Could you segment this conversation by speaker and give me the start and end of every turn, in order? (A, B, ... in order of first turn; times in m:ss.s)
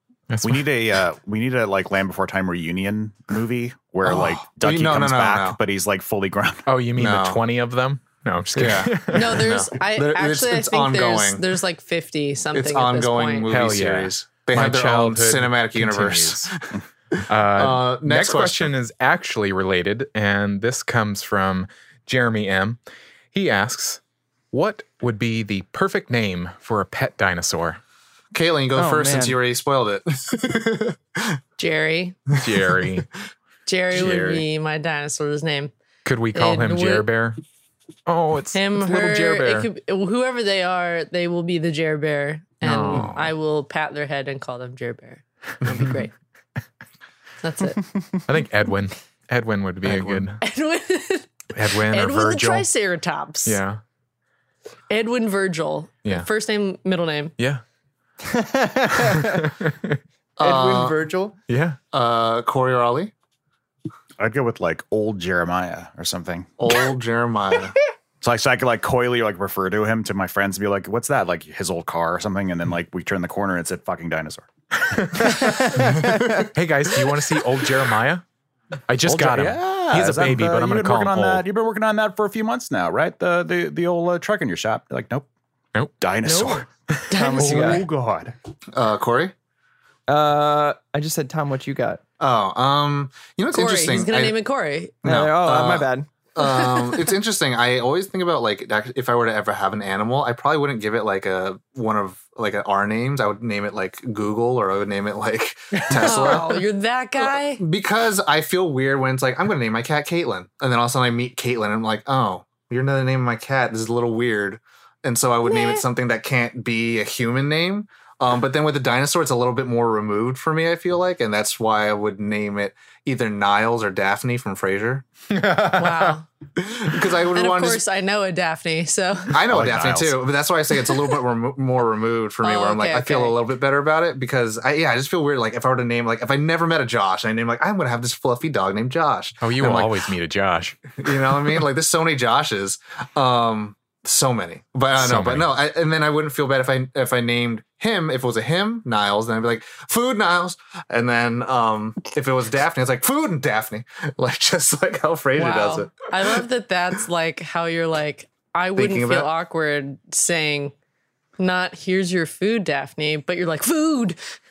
0:00.3-0:00.7 A
0:00.4-0:06.7 B
0:04.0-0:05.6 C
0:06.7-0:09.4 A
0:07.0-0:07.4 C
0:08.6-0:11.5 C
0:09.1-0:13.5 D
0:12.5-0:18.7 C
0:13.5-0:16.5 A
0:17.3-0:22.8 A
0:23.3-0:24.0 A
0:24.5-0:27.8 A
0:28.3-0:31.4 C
0:28.8-0:29.4 E
0:31.6-0:32.2 D
0:32.4-0:33.1 A
0:33.7-0:35.7 D
0:33.9-0:34.4 A
0:36.0-0:37.4 A
0:36.3-0:37.1 D
0:38.1-0:39.7 A
0:38.5-0:46.2 D
0:42.6-0:43.2 A
0:42.9-0:43.3 C
0:45.6-0:45.9 C
0:47.4-0:47.9 D
0:48.3-0:50.4 A
0:49.9-0:50.2 C
0:50.4-0:53.6 D
0:51.5-0:52.7 A
0:53.5-0:53.8 A
0:54.9-0:57.4 D
0:58.2-0:59.5 E
0:59.0-1:00.0 A
1:00.4-1:01.1 C
1:00.4-1:01.4 E
1:01.5-1:01.8 A
1:01.9-1:03.1 C
1:04.2-1:06.5 B
1:06.6-1:07.8 C
1:08.2-1:14.5 B
1:14.8-1:16.0 A
1:15.4-1:16.5 E
1:16.1-1:16.4 C
1:16.5-1:18.2 A
1:18.9-1:21.4 A
1:19.0-1:25.3 B
1:26.0-1:28.4 B
1:26.2-1:27.8 D
1:27.2-1:27.8 E
1:28.7-1:29.3 C
1:30.1-1:32.0 E
1:32.2-1:34.4 C
1:33.5-1:35.0 D
1:35.0-1:46.6 C
1:35.0-1:36.1 E
1:36.4-1:37.1 D
1:45.9-1:47.6 D
1:47.6-2:05.0 C
1:55.4-1:55.8 D
2:05.3-2:06.2 A
2:05.8-2:06.3 D
2:06.6-2:07.8 C
2:07.3-2:09.4 D
2:09.3-2:20.0 C
2:09.5-2:10.2 B
2:12.4-2:13.4 D
2:19.4-2:21.0 A
2:21.0-2:36.4 C
2:25.0-2:25.5 A
2:35.4-2:40.7 D
2:38.8-2:39.3 C
2:41.4-2:44.2 D